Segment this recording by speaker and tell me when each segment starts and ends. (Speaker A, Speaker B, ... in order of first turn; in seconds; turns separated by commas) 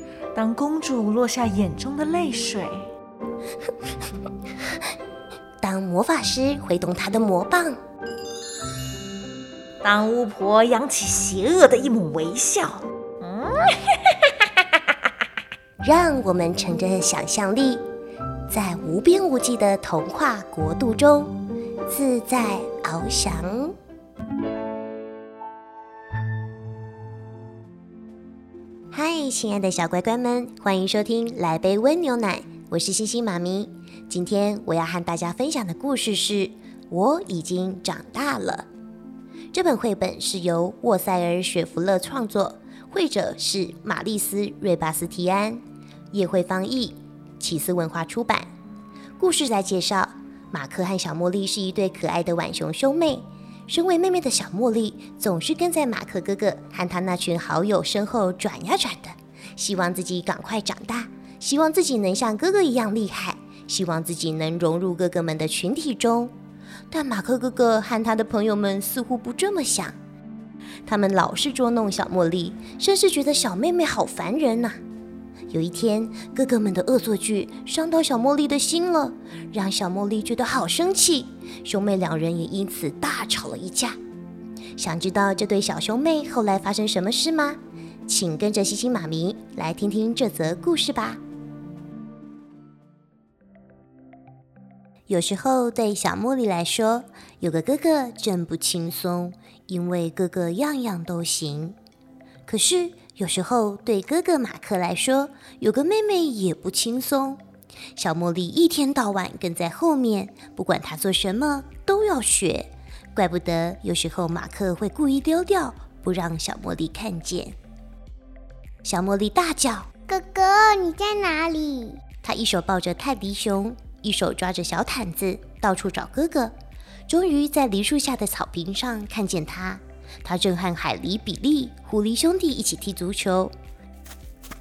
Speaker A: 0.3-2.9, Speaker B: 5.6-7.8, Speaker A: 9.8-13.7, Speaker B: 15.8-17.8, Speaker B: 18.5-21.4, Speaker B: 21.9-23.8, Speaker B: 28.9-38.7, Speaker B: 39.5-48.5, Speaker B: 49.2-66.3, Speaker B: 66.9-70.0, Speaker B: 70.9-74.8, Speaker B: 75.5-84.0, Speaker B: 84.8-91.2, Speaker B: 95.1-101.8, Speaker B: 102.5-107.4, Speaker B: 108.0-117.6, Speaker B: 118.8-119.9, Speaker C: 120.1-122.0, Speaker B: 122.2-126.5, Speaker B: 127.1-133.5